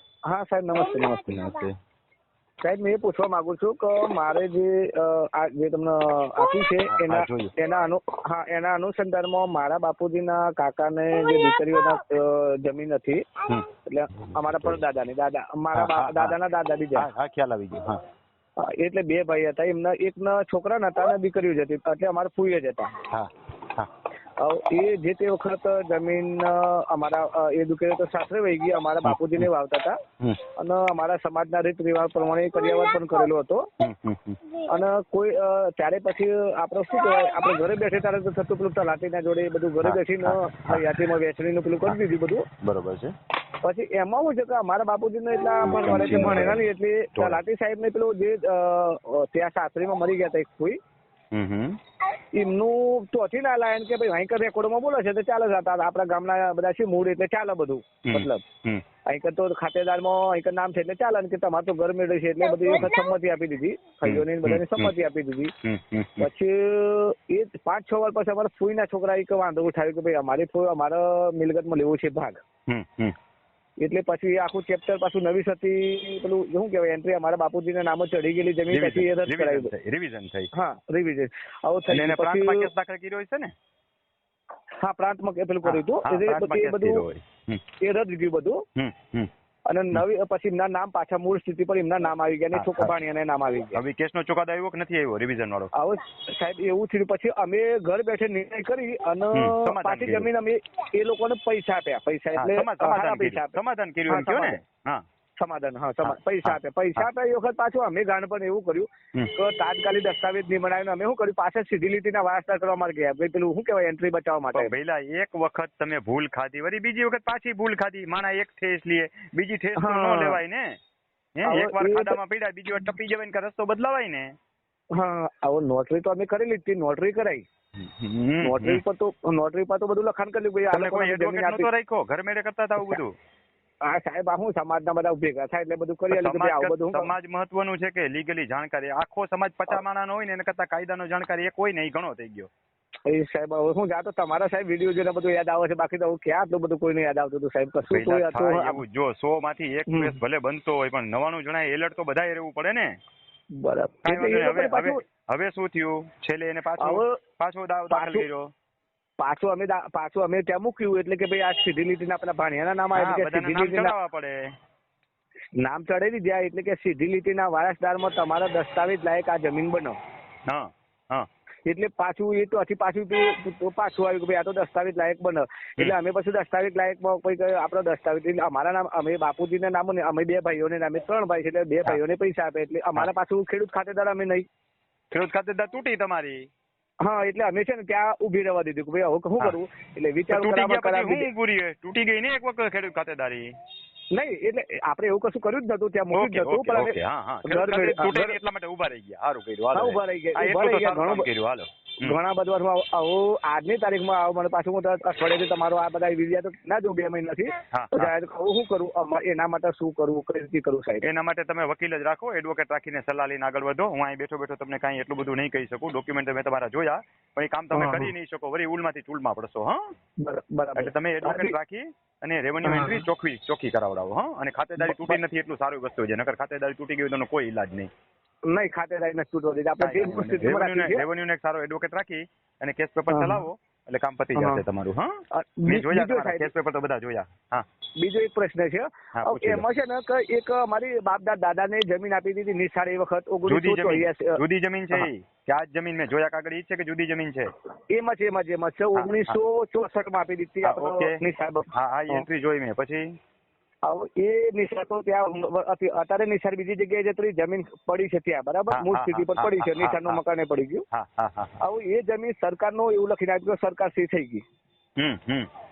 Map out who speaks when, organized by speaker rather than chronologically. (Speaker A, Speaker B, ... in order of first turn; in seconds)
Speaker A: 0.3-1.4, 2.6-13.2, 13.9-17.1, 18.6-23.0, 24.4-30.0, 30.6-33.7, 34.7-42.5, 43.6-50.8, 52.3-58.4, 59.0-65.5, 66.2-72.4, 73.8-79.7, 80.5-82.7, 84.8-87.1, 87.8-88.6, 89.7-93.8, 95.7-104.6, 105.4-114.7, 119.8-120.4, 121.4-122.2, 125.0-127.4, 128.4-131.7, 133.8-137.1, 143.1-148.8, 149.9-150.2, 153.6-155.0, 156.8-157.2, 157.9-158.3, 159.2-163.9, 165.6-170.0, 171.7-184.5, 187.0-191.3, 194.1-198.4, 199.7-201.3, 202.0-211.1, 217.7-218.1, 220.2-221.6, 222.6-223.1, 224.8-225.2, 228.5-231.1, 233.1-233.5, 234.3-234.6, 235.3-236.5, 238.0-244.4, 247.9-252.3, 253.8-260.9, 261.6-264.4
Speaker B: 1.2-1.8, 6.9-7.5, 13.5-14.8, 15.7-16.4, 16.9-18.0, 23.1-23.9, 29.1-29.5, 33.8-34.4, 39.8-41.0, 42.6-43.1, 45.6-46.6, 51.3-51.8, 58.0-58.8, 64.0-64.9, 65.6-66.3, 72.7-73.2, 78.7-80.5, 81.9-83.5, 85.6-87.6, 88.8-89.3, 92.5-92.9, 93.7-95.7, 99.3-100.3, 102.4-105.0, 106.0-107.1, 114.5-120.8, 121.4-124.3, 127.8-128.8, 130.7-133.2, 136.1-142.5, 147.8-153.0, 154.0-158.5, 162.9-164.5, 170.5-171.3, 185.1-186.5, 190.3-193.5, 196.1-202.2, 207.7-208.1, 211.0-219.9, 220.8-227.9, 229.8-237.7, 239.1-239.6, 243.5-247.5, 248.9-249.4, 250.6-251.2, 251.7-253.1, 258.7-260.2, 260.9-261.6, 265.0-265.5